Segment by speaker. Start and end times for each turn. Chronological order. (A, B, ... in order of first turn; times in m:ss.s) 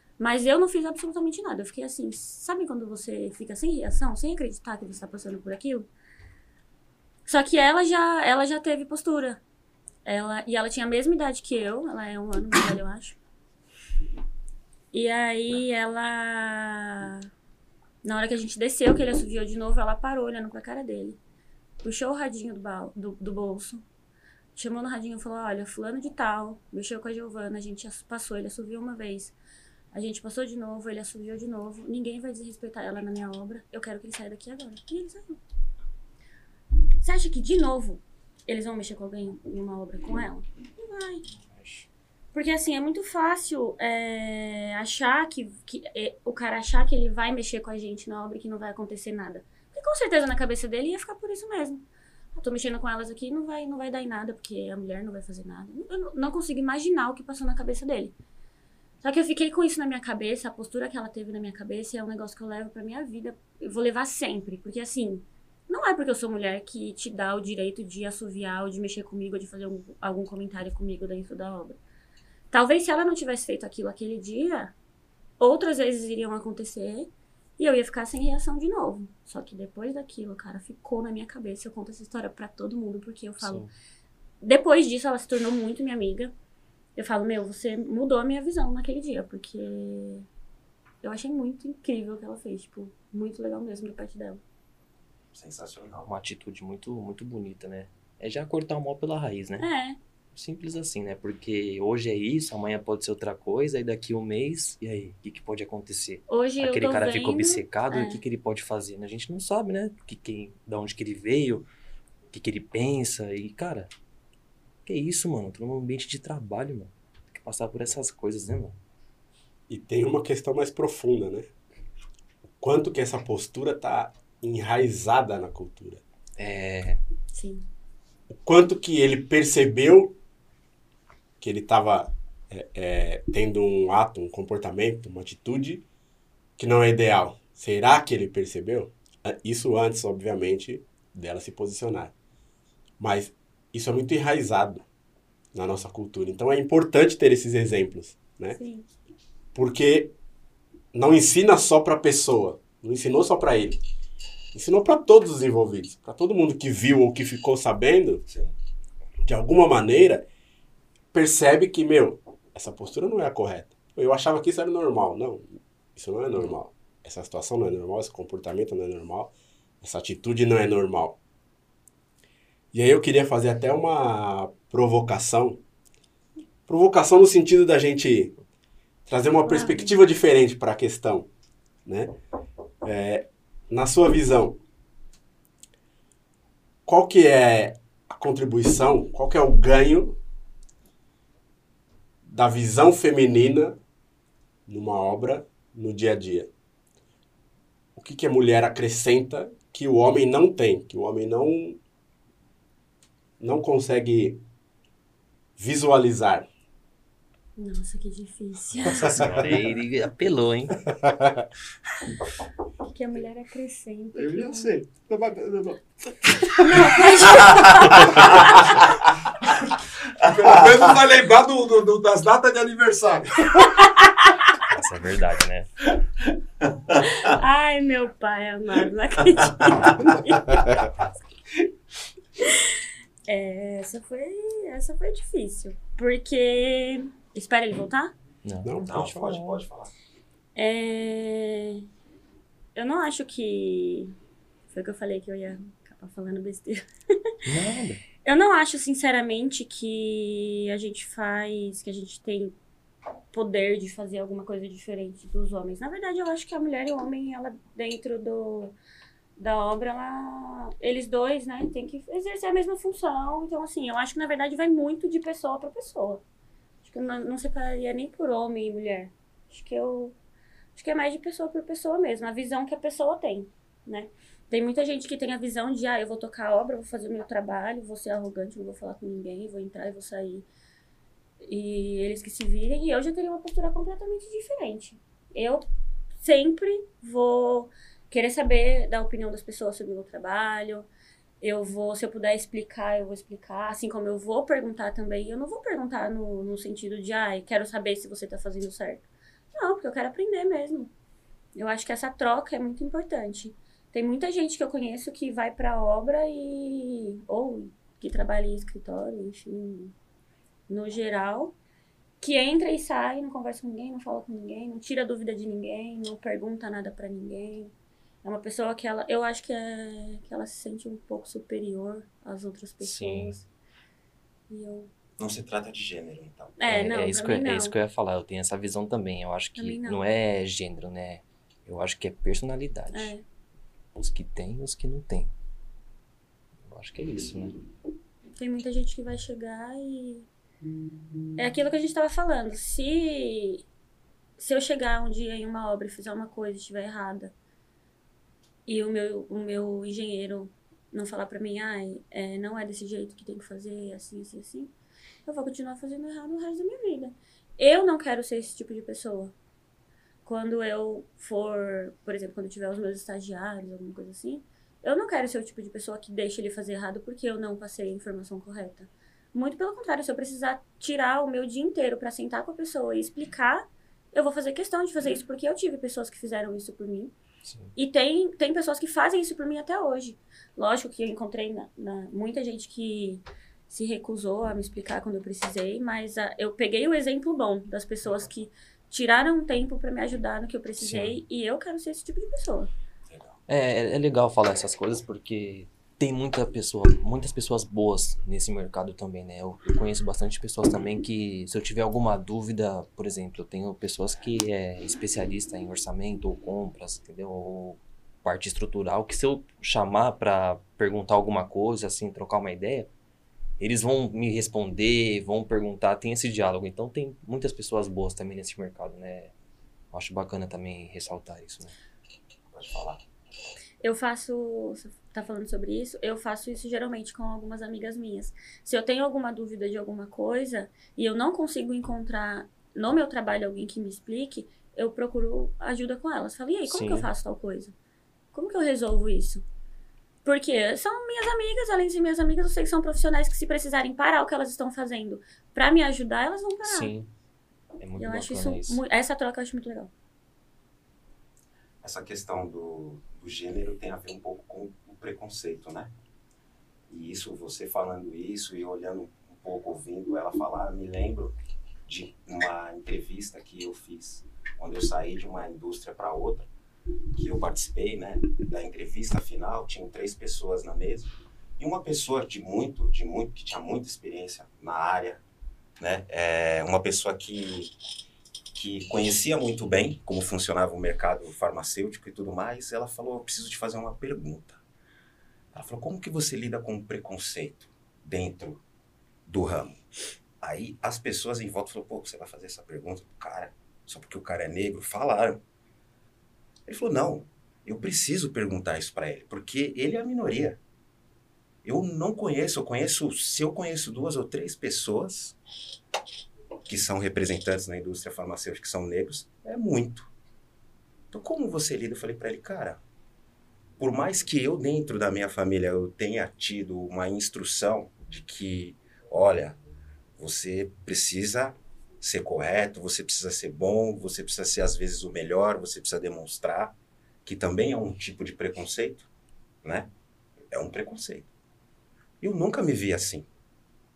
0:00.2-0:05.9 A
0:07.3-0:09.4 A
0:10.0-0:13.2 A
0:14.9-0:17.3 A
0:18.0-0:21.2 A
0:21.8-0:23.8 A
0:24.6-0:29.4 A
0:29.9-0:35.4 A
0:37.0-0:41.2 A
0:42.3-0:51.8 A
0:52.4-0:58.1 A
0:59.0-1:11.8 A
1:12.5-1:14.7 A
1:15.4-1:23.6 A
1:23.4-1:23.7 B
1:24.4-1:26.3 A
1:27.0-1:30.3 A
1:31.0-1:34.4 A
1:35.3-1:36.1 C
1:36.1-1:39.7 B
1:39.6-1:40.0 A
1:40.4-1:51.7 B
1:46.3-1:48.2 A
1:52.3-1:53.9 B
1:54.9-1:58.8 B
1:59.7-2:01.5 D
2:02.6-2:06.0 D
2:06.4-2:07.0 B
2:07.3-2:07.7 A
2:08.4-2:10.2 D
2:11.4-2:15.8 D
2:16.6-2:22.1 D
2:23.0-2:24.8 D
2:25.5-2:28.6 D
2:28.6-2:28.9 A
2:29.6-2:30.1 D
2:30.9-2:33.8 D
2:34.5-2:38.2 D
2:38.3-2:38.5 C
2:39.2-2:40.2 D
2:41.1-2:51.2 D
2:52.7-2:55.6 D
2:56.7-2:58.3 D
2:59.1-3:01.3 D
2:59.5-2:59.9 A
3:01.8-3:02.2 D
3:02.8-3:04.6 D
3:06.9-3:10.2 D
3:12.2-3:13.8 D
3:14.7-3:16.5 D
3:18.0-3:21.8 D
3:23.4-3:24.4 D
3:25.6-3:26.5 D
3:27.6-3:29.2 A
3:28.9-3:29.4 D
3:28.9-3:30.9 B
3:31.0-3:31.4 D
3:32.9-3:34.8 A
3:34.2-3:38.8 E
3:36.5-3:38.6 A
3:40.2-3:43.9 E
3:44.7-3:45.7 B
3:47.0-3:50.6 A
3:52.4-3:58.1 A
3:58.4-3:58.7 B
3:58.6-3:59.6 D
3:58.8-3:59.9 C
4:00.6-4:01.8 A
4:02.8-4:04.2 A
4:04.7-4:07.3 A
4:07.5-4:08.0 B
4:08.2-4:12.6 A
4:13.3-4:18.8 A
4:19.4-4:26.2 A
4:26.8-4:30.2 A
4:30.8-4:40.5 A
4:41.4-4:45.6 A
4:46.2-4:50.9 A
4:51.4-5:00.9 A
5:01.6-5:09.9 A
5:10.7-5:11.6 A
5:12.2-5:17.7 A
5:18.2-5:23.5 A
5:22.8-5:23.4 B
5:24.5-5:24.9 A
5:25.2-5:26.6 C
5:26.6-5:27.8 A
5:26.7-5:33.1 B
5:29.6-5:30.0 A
5:32.9-5:33.2 A
5:34.0-5:35.3 B
5:36.7-5:37.6 B
5:38.4-5:40.3 A
5:41.4-5:43.6 A
5:44.4-5:47.3 A
5:48.7-5:54.7 A
5:55.3-5:59.3 A
6:00.2-6:17.1 A
6:17.4-6:17.7 B
6:17.8-6:32.7 A
6:30.8-6:31.2 B
6:33.5-6:52.9 B
6:53.6-6:59.3 B
6:59.9-7:01.8 B
7:02.5-7:03.0 C
7:03.8-7:17.7 A
7:16.7-7:17.1 B
7:18.3-7:19.4 A
7:20.2-7:26.9 A
7:26.6-7:27.1 B
7:27.8-7:28.8 B
7:28.0-7:29.9 A
7:31.8-7:35.9 C
7:36.9-7:41.3 C
7:41.9-7:46.5 C
7:47.2-7:55.2 C
7:55.8-7:57.7 C
7:58.5-8:04.6 C
8:05.5-8:08.6 C
8:09.3-8:09.9 C
8:10.4-8:15.4 C
8:16.7-8:20.6 C
8:21.6-8:25.4 C
8:26.7-8:30.1 C
8:31.1-8:32.8 C
8:33.8-8:39.6 C
8:40.2-8:49.1 C
8:49.6-8:49.9 C
8:50.5-8:51.3 C
8:52.2-8:53.3 C